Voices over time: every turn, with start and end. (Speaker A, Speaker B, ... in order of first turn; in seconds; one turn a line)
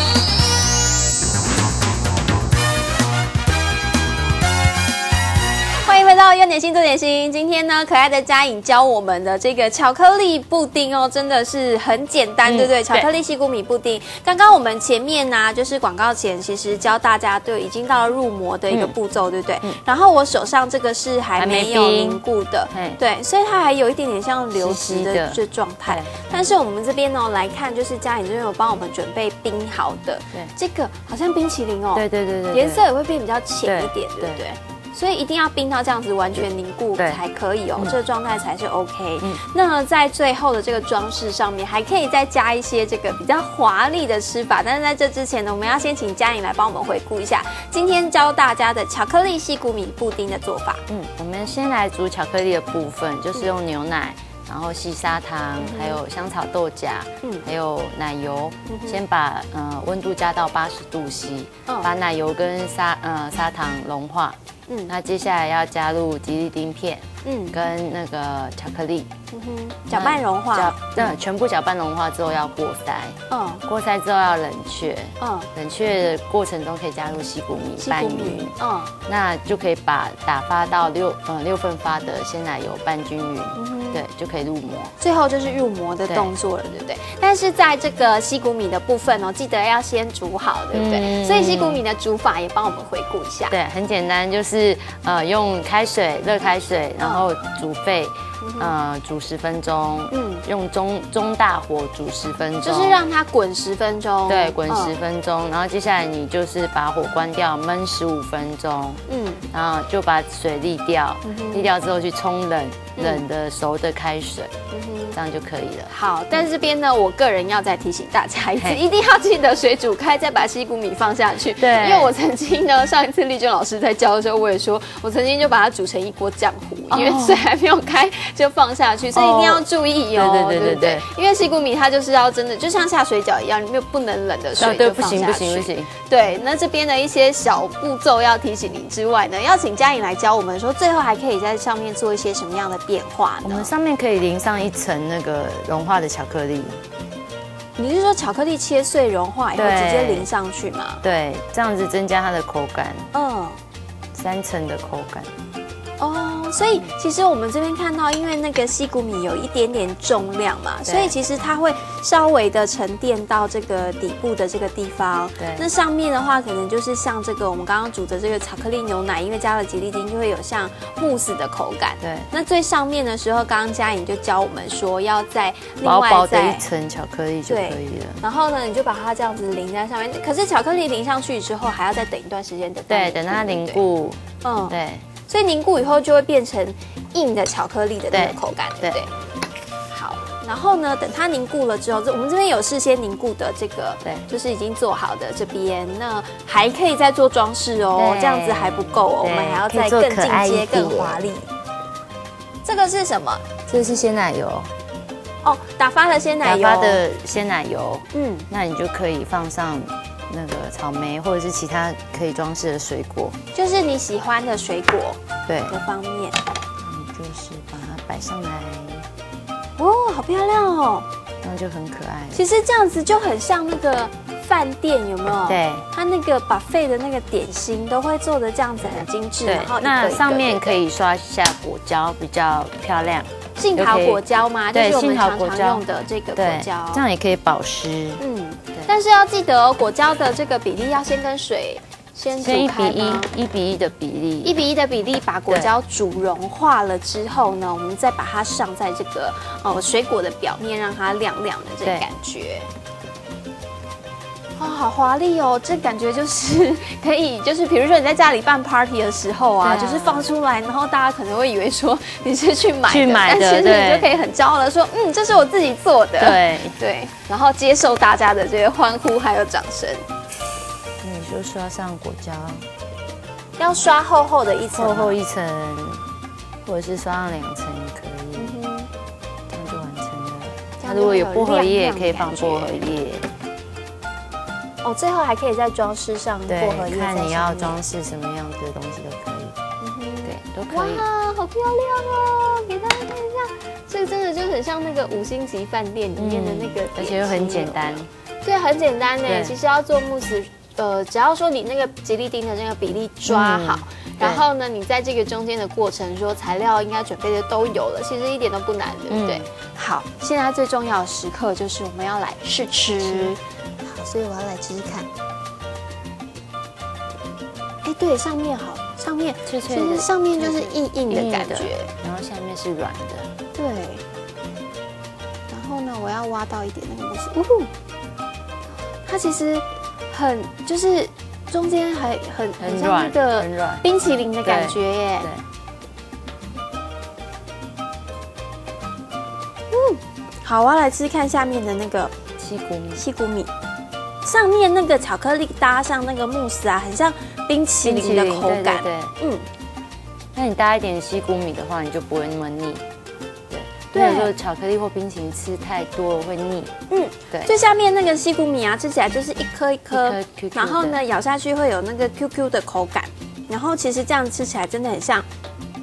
Speaker A: 5.8-50.8
Speaker B: 12.4-13.1
Speaker B: 21.4-22.2
Speaker B: 22.7-23.0
Speaker B: 24.5-26.4
Speaker B: 31.9-32.8
Speaker B: 33.6-34.4
Speaker B: 50.9-64.3
Speaker A: 55.6-56.0
Speaker A: 58.7-59.0
Speaker A: 64.7-64.9
Speaker B: 64.9-69.1
Speaker A: 67.2-67.6
Speaker A: 69.3-71.1
Speaker B: 69.9-78.5
Speaker A: 73.3-73.6
Speaker A: 75.2-75.5
Speaker A: 77.8-78.9
Speaker B: 79.0-84.9
Speaker A: 83.5-84.0
Speaker A: 85.0-93.5
Speaker B: 86.0-86.3
Speaker B: 90.7-91.8
Speaker B: 93.5-103.0
Speaker A: 97.0-97.2
Speaker A: 98.4-98.7
Speaker A: 100.1-100.4
Speaker A: 102.6-105.0
Speaker B: 104.3-114.5
Speaker A: 109.1-109.5
Speaker A: 111.2-111.7
Speaker A: 113.0-113.2
Speaker A: 114.7-115.2
Speaker B: 115.1-116.5
Speaker A: 115.9-143.7
Speaker B: 121.6-122.1
Speaker B: 126.9-127.4
Speaker B: 129.1-131.1
Speaker B: 134.6-135.9
Speaker B: 143.4-146.8
Speaker A: 147.8-151.0
Speaker B: 149.5-150.3
Speaker B: 151.0-153.1
Speaker A: 153.1-153.6
Speaker B: 154.1-155.3
Speaker A: 156.0-176.6
Speaker B: 156.6-156.9
Speaker B: 160.8-161.1
Speaker B: 165.4-165.7
Speaker B: 172.0-172.3
Speaker B: 175.8-178.2
Speaker A: 177.5-183.8
Speaker B: 182.9-185.1
Speaker A: 184.4-184.7
Speaker A: 185.3-189.1
Speaker B: 188.1-189.0
Speaker A: 189.9-201.5
Speaker B: 197.9-201.2
Speaker A: 202.6-203.5
Speaker B: 203.7-204.7
Speaker A: 205.4-207.0
Speaker B: 206.4-213.4
Speaker A: 208.1-208.5
Speaker A: 213.5-216.3
Speaker B: 215.5-215.7
Speaker B: 216.8-219.1
Speaker A: 219.8-221.1
Speaker B: 221.4-222.4
Speaker A: 222.3-230.8
Speaker B: 225.5-225.8
Speaker B: 228.8-235.8
Speaker A: 233.6-237.0
Speaker B: 236.3-238.2
Speaker A: 238.2-243.3
Speaker B: 242.3-244.6
Speaker A: 244.4-252.7
Speaker A: 254.6-270.1
Speaker B: 259.6-260.3
Speaker B: 262.9-264.1
Speaker B: 266.2-266.8
Speaker B: 271.0-272.7
Speaker A: 273.6-275.2
Speaker B: 274.7-276.0
Speaker B: 276.6-278.5
Speaker A: 278.4-278.9
Speaker B: 279.5-283.3
Speaker A: 280.8-282.8
Speaker A: 284.8-287.8
Speaker B: 286.5-289.5
Speaker A: 289.8-315.1
Speaker B: 290.2-291.0
Speaker B: 296.1-298.1
Speaker B: 299.2-299.5
Speaker B: 303.2-304.4
Speaker B: 309.1-309.5
Speaker B: 313.1-313.3
Speaker A: 317.8-321.9
Speaker B: 319.4-323.3
Speaker A: 323.6-324.0
Speaker A: 325.5-327.7
Speaker A: 329.0-335.3
Speaker B: 332.6-333.9
Speaker B: 334.4-335.4
Speaker A: 339.7-342.1
Speaker B: 342.4-343.0
Speaker A: 343.0-343.5
Speaker A: 344.2-349.5
Speaker B: 347.8-349.1
Speaker B: 350.3-352.8
Speaker B: 353.5-356.7
Speaker A: 353.9-354.3
Speaker A: 356.9-365.2
Speaker B: 359.9-361.0